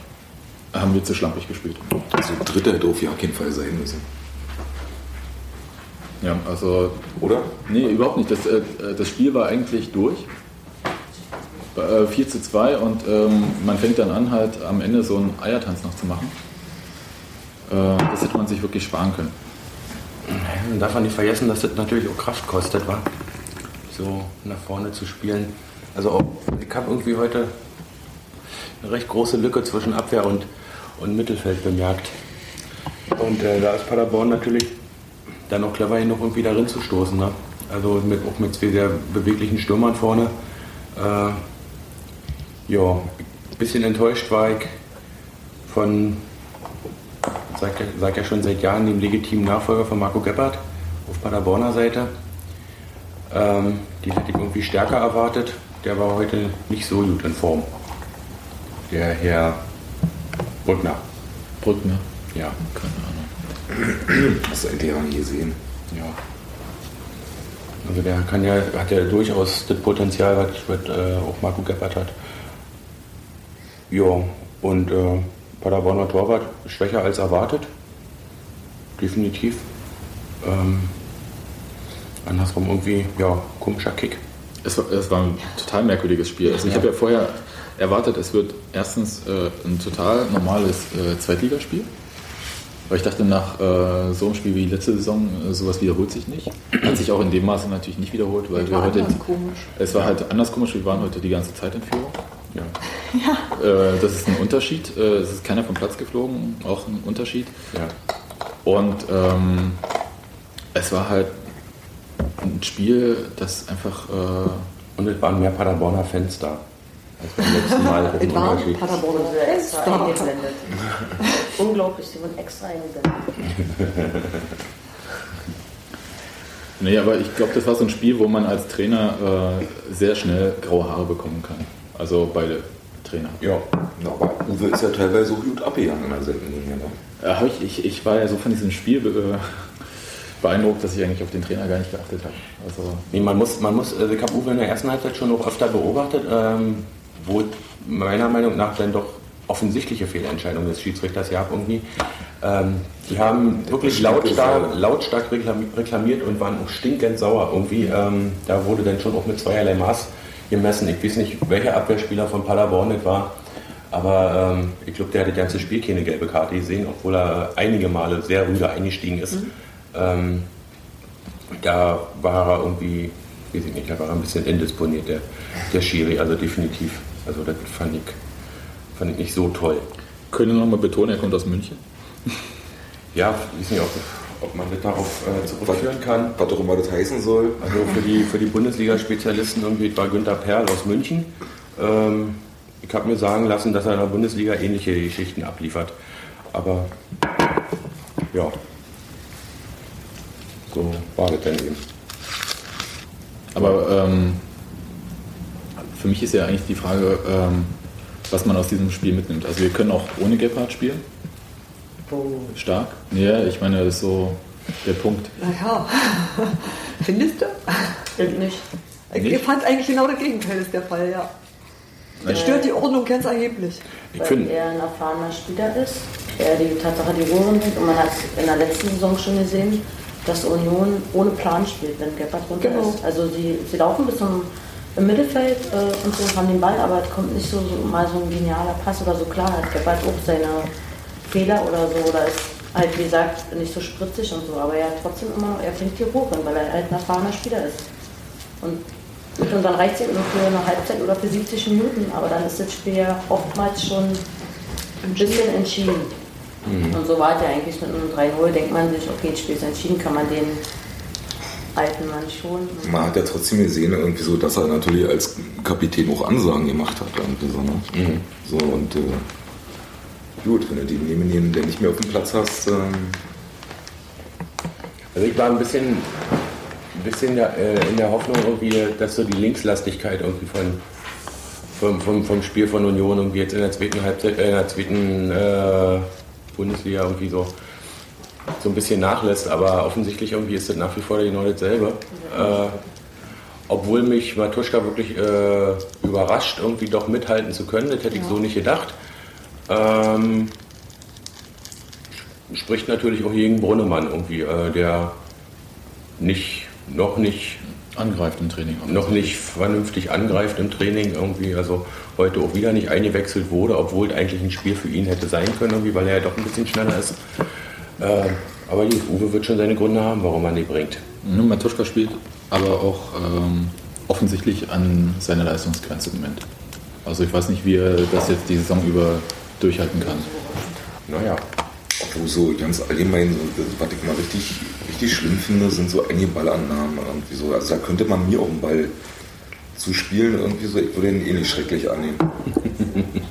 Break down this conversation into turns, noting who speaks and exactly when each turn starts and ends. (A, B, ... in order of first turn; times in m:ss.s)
0:00.7-0:01.9 A
0:02.0-0:04.0 B
0:06.2-0:07.0 A
0:07.2-0:07.5 B
0:07.6-0:10.3 A
0:11.7-0:16.4 A
0:17.7-0:19.3 A
0:20.2-0:23.1 C
0:23.9-0:27.5 C
0:28.8-0:32.1 C
0:33.1-0:34.8 C
0:35.5-0:40.3 C
0:40.9-0:41.4 C
0:42.7-0:44.8 C
0:45.7-0:46.2 C
0:47.5-0:52.1 C
0:53.3-0:57.7 C
0:58.9-0:59.6 C
1:00.6-1:01.0 C
1:01.6-1:02.0 A
1:02.6-1:03.3 A
1:03.7-1:05.6 B
1:05.9-1:06.2 C
1:07.8-1:12.1 C
1:13.9-1:17.7 C
1:19.0-1:19.7 C
1:20.4-1:20.9 C
1:22.2-1:24.2 C
1:24.6-1:31.9 A
1:32.9-1:39.2 A
1:38.6-1:39.7 D
1:39.7-1:42.2 A
1:43.0-1:43.5 D
1:43.5-1:47.5 A
1:48.6-1:49.8 A
1:50.7-1:51.4 A
1:52.4-1:54.7 A
1:55.0-1:56.6 C
1:57.2-1:59.0 C
1:57.6-2:00.3 D
1:59.0-2:03.5 E
2:03.8-2:04.3 C
2:06.8-2:13.4 A
2:14.0-2:17.0 B
2:17.2-2:23.1 A
2:23.1-2:43.4 C
2:33.6-2:34.7 B
2:43.9-2:50.5 C
2:51.6-2:58.2 C
2:59.0-2:59.9 C
3:00.3-3:01.8 A
3:03.1-3:06.3 C
3:05.6-3:07.8 B
3:07.6-3:15.9 C
3:16.5-3:16.9 C
3:20.7-3:21.8 C
3:23.5-3:24.4 A
3:25.8-3:27.7 A
3:28.3-3:31.0 A
3:32.1-3:32.5 E
3:32.5-3:35.3 A
3:35.4-3:38.1 D
3:38.2-3:38.6 E
3:39.1-3:41.3 D
3:39.1-3:39.4 A
3:42.2-3:42.4 A
3:42.2-3:43.8 D
3:42.2-3:42.7 E
3:44.1-3:44.5 C
3:44.2-4:00.7 E
3:52.6-3:53.0 D
4:01.2-4:07.8 E
4:09.4-4:14.2 E
4:15.1-4:15.4 D
4:15.1-4:16.1 E
4:16.6-4:17.0 C
4:16.9-4:20.6 E
4:21.7-4:23.0 E
4:22.8-4:27.9 B
4:27.9-4:28.2 C
4:28.4-4:29.2 B
4:30.4-4:33.2 B
4:35.1-4:36.1 C
4:36.9-4:40.8 C
4:41.7-4:47.5 C
4:48.6-4:52.8 C
4:52.2-4:52.8 E
4:53.7-4:58.9 C
4:59.7-5:00.5 C
5:02.5-5:05.1 C
5:06.2-5:07.6 C
5:07.9-5:09.4 A
5:08.9-5:17.2 C
5:18.0-5:21.0 C
5:21.2-5:26.4 A
5:27.0-5:30.3 A
5:30.0-5:30.8 E
5:31.1-5:31.4 C
5:32.0-5:38.9 B
5:39.7-5:42.5 B
5:42.8-5:43.0 E